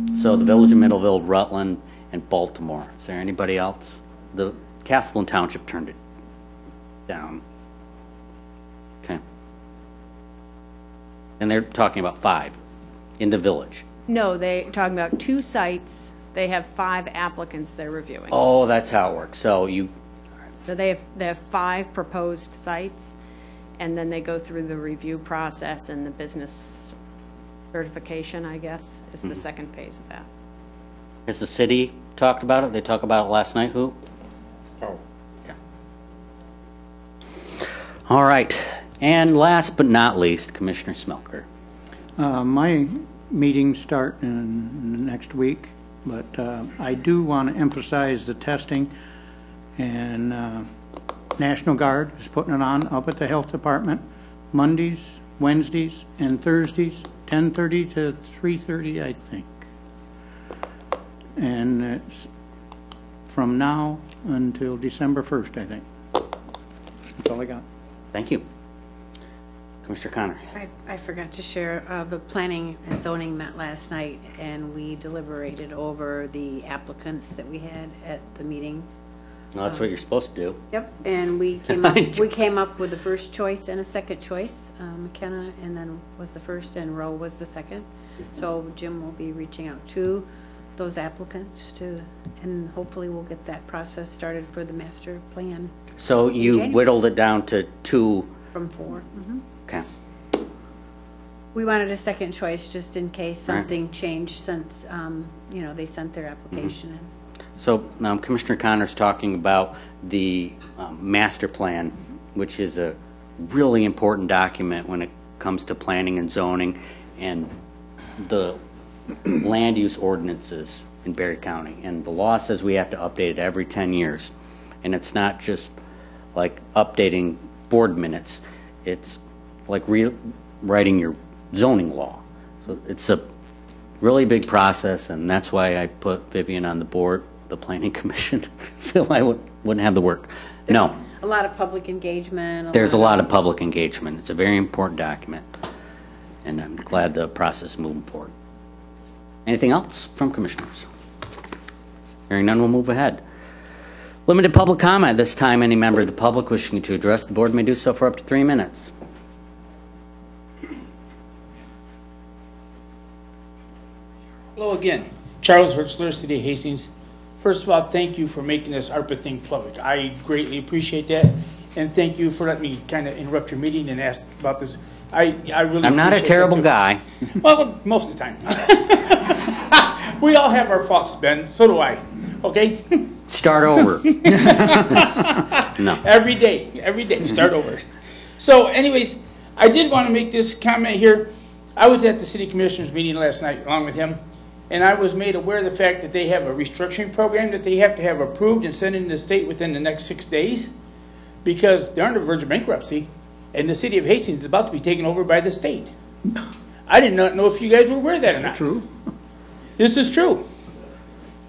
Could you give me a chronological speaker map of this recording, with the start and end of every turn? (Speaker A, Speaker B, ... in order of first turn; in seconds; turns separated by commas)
Speaker A: 0.1-6.0, Speaker A: 7.1-7.4, Speaker A: 11.4-12.6, Speaker A: 13.2-13.8, Speaker B: 14.1-18.4, Speaker A: 18.3-19.9, Speaker B: 20.7-23.1, Speaker B: 23.8-26.9, Speaker B: 27.7-30.2, Speaker A: 31.3-34.0, Speaker A: 38.1-41.4, Speaker C: 42.2-48.9, Speaker C: 49.8-50.7, Speaker C: 51.4-59.6, Speaker C: 61.4-62.3, Speaker C: 63.3-65.8, Speaker C: 67.2-67.6, Speaker A: 68.1-68.4, Speaker A: 69.8-70.5, Speaker D: 70.5-78.9, Speaker A: 79.5-80.6, Speaker D: 79.6-79.9, Speaker D: 80.7-95.7, Speaker A: 81.7-82.2, Speaker A: 96.0-98.3, Speaker D: 96.3-96.8, Speaker D: 98.5-99.4, Speaker D: 101.5-107.1, Speaker A: 107.6-117.5, Speaker A: 118.2-118.6, Speaker A: 119.3-125.7, Speaker A: 126.3-133.3, Speaker A: 134.0-141.0, Speaker D: 140.7-143.3, Speaker A: 142.7-145.5, Speaker A: 146.4-148.3, Speaker A: 149.4-150.8, Speaker A: 152.3-153.2, Speaker A: 154.3-158.9, Speaker E: 164.6-166.9, Speaker E: 167.4-176.7, Speaker A: 175.8-177.0, Speaker E: 177.3-183.1, Speaker A: 183.3-184.1, Speaker E: 184.0-187.9, Speaker A: 185.7-186.0, Speaker E: 188.4-194.2, Speaker E: 194.7-200.7, Speaker E: 201.4-205.9, Speaker E: 206.9-208.6, Speaker C: 208.3-209.0, Speaker E: 209.8-210.4